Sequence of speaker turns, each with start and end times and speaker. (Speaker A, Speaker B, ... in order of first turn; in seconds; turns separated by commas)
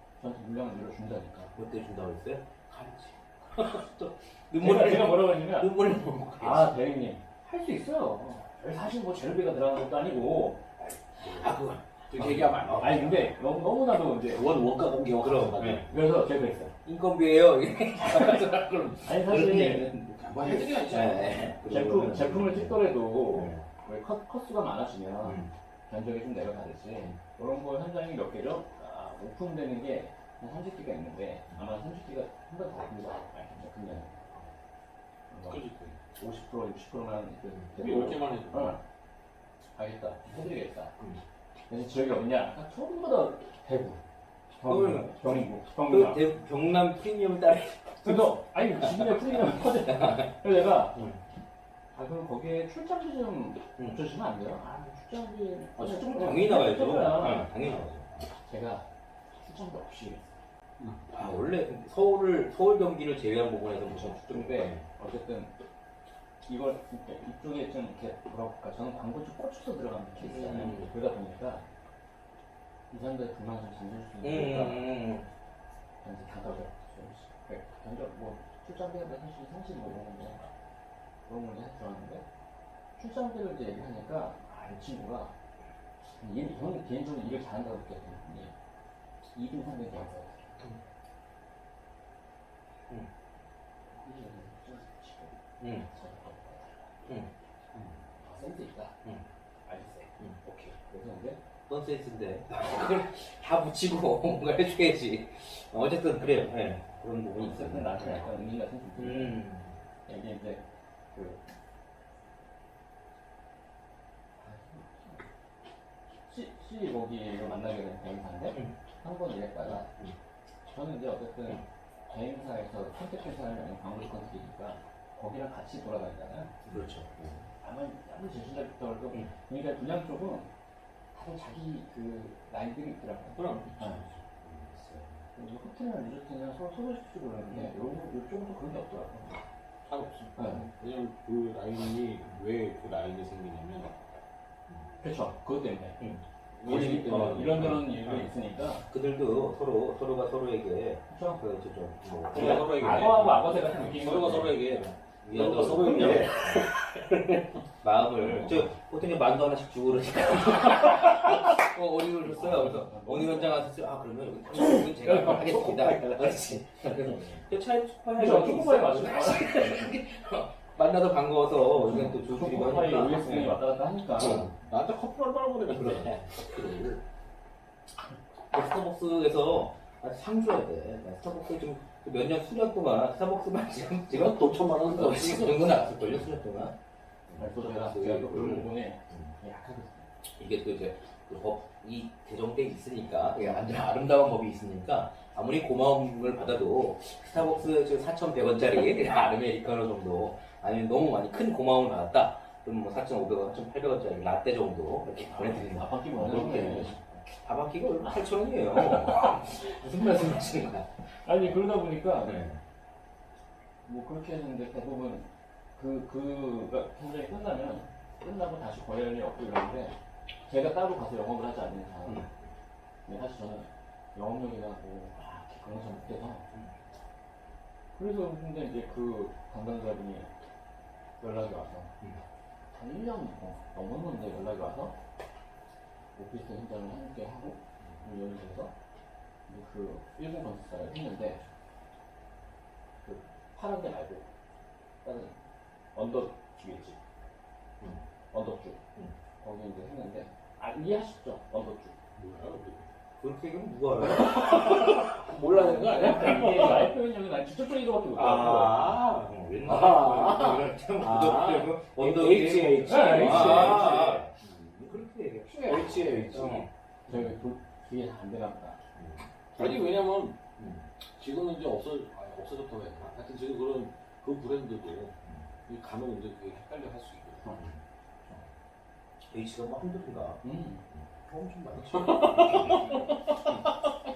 Speaker A: 0.2-1.5, Speaker B: 1.6-6.8, Speaker A: 4.6-10.7, Speaker B: 10.8-12.9, Speaker C: 11.2-11.6, Speaker C: 12.1-13.3, Speaker A: 12.7-14.4, Speaker C: 14.3-15.9, Speaker B: 15.2-15.9, Speaker A: 15.8-16.7, Speaker B: 16.8-23.7, Speaker A: 18.1-18.4, Speaker A: 19.1-19.9, Speaker C: 20.1-21.5, Speaker A: 21.6-34.4, Speaker B: 25.2-25.5, Speaker A: 35.3-35.6, Speaker C: 35.5-36.0, Speaker A: 36.1-38.8, Speaker C: 37.7-38.8, Speaker A: 39.8-41.0, Speaker A: 41.7-44.0, Speaker A: 44.6-46.3, Speaker B: 44.6-50.4, Speaker A: 48.0-51.0, Speaker B: 50.9-51.2, Speaker A: 51.9-57.5, Speaker B: 55.8-58.3, Speaker A: 58.5-60.4, Speaker C: 60.8-61.5, Speaker B: 61.1-64.9, Speaker A: 63.9-65.5, Speaker A: 66.5-71.7, Speaker B: 70.2-70.9, Speaker A: 72.9-74.9, Speaker B: 74.2-75.3, Speaker A: 76.0-80.5, Speaker A: 81.3-82.2, Speaker A: 83.0-85.3, Speaker A: 86.2-88.5, Speaker A: 89.3-90.6, Speaker A: 93.9-97.0, Speaker B: 95.6-95.9, Speaker B: 97.0-97.3, Speaker A: 98.2-99.0, Speaker A: 99.7-101.4, Speaker B: 101.7-108.4, Speaker A: 107.4-109.5, Speaker B: 109.0-109.8, Speaker A: 110.1-111.4, Speaker A: 114.4-115.3, Speaker A: 116.3-119.9, Speaker A: 120.7-126.6, Speaker B: 126.7-127.4, Speaker A: 127.5-130.5, Speaker A: 131.1-134.0, Speaker C: 133.3-134.7, Speaker B: 134.6-135.2, Speaker A: 135.3-139.4, Speaker B: 137.4-137.7, Speaker C: 139.8-143.9, Speaker A: 140.4-140.7, Speaker A: 145.0-146.0, Speaker C: 146.6-148.0, Speaker A: 146.6-148.9, Speaker B: 147.4-148.3, Speaker B: 148.8-154.4, Speaker A: 151.1-151.4, Speaker C: 152.3-157.6, Speaker A: 152.3-154.6, Speaker B: 155.2-156.7, Speaker A: 155.6-156.6, Speaker B: 157.8-173.6, Speaker A: 158.2-158.7, Speaker A: 162.2-163.7, Speaker A: 164.6-165.4, Speaker C: 165.1-167.4, Speaker A: 168.2-169.9, Speaker A: 171.7-174.5, Speaker C: 174.2-177.0, Speaker B: 174.2-174.5, Speaker B: 175.7-177.0, Speaker B: 178.5-186.8, Speaker C: 184.1-185.9, Speaker B: 187.3-189.3, Speaker A: 187.4-190.1, Speaker C: 187.6-188.5, Speaker B: 190.2-211.6, Speaker A: 205.3-207.0, Speaker A: 208.7-209.2, Speaker A: 211.2-212.4, Speaker B: 212.2-212.6, Speaker A: 213.8-220.0, Speaker A: 220.5-222.3, Speaker B: 222.1-222.5, Speaker A: 223.1-226.4, Speaker A: 227.9-230.3, Speaker A: 231.2-231.9, Speaker A: 232.7-235.0, Speaker A: 236.2-238.7, Speaker A: 239.5-241.4, Speaker A: 243.0-244.3, Speaker A: 245.0-245.4, Speaker A: 245.9-247.0, Speaker A: 248.3-248.8, Speaker A: 249.4-251.9, Speaker C: 252.2-252.9, Speaker B: 253.2-254.9, Speaker C: 254.0-256.9, Speaker A: 255.4-258.9, Speaker C: 258.1-266.7, Speaker B: 258.8-264.3, Speaker A: 262.9-264.3, Speaker B: 264.9-267.3, Speaker A: 265.9-266.5, Speaker A: 267.1-268.8, Speaker B: 269.0-269.7, Speaker C: 269.6-270.4, Speaker A: 269.6-269.9, Speaker B: 270.6-270.9, Speaker C: 271.1-275.2, Speaker C: 275.7-277.5, Speaker B: 279.3-283.8, Speaker A: 280.4-280.9, Speaker C: 281.7-283.8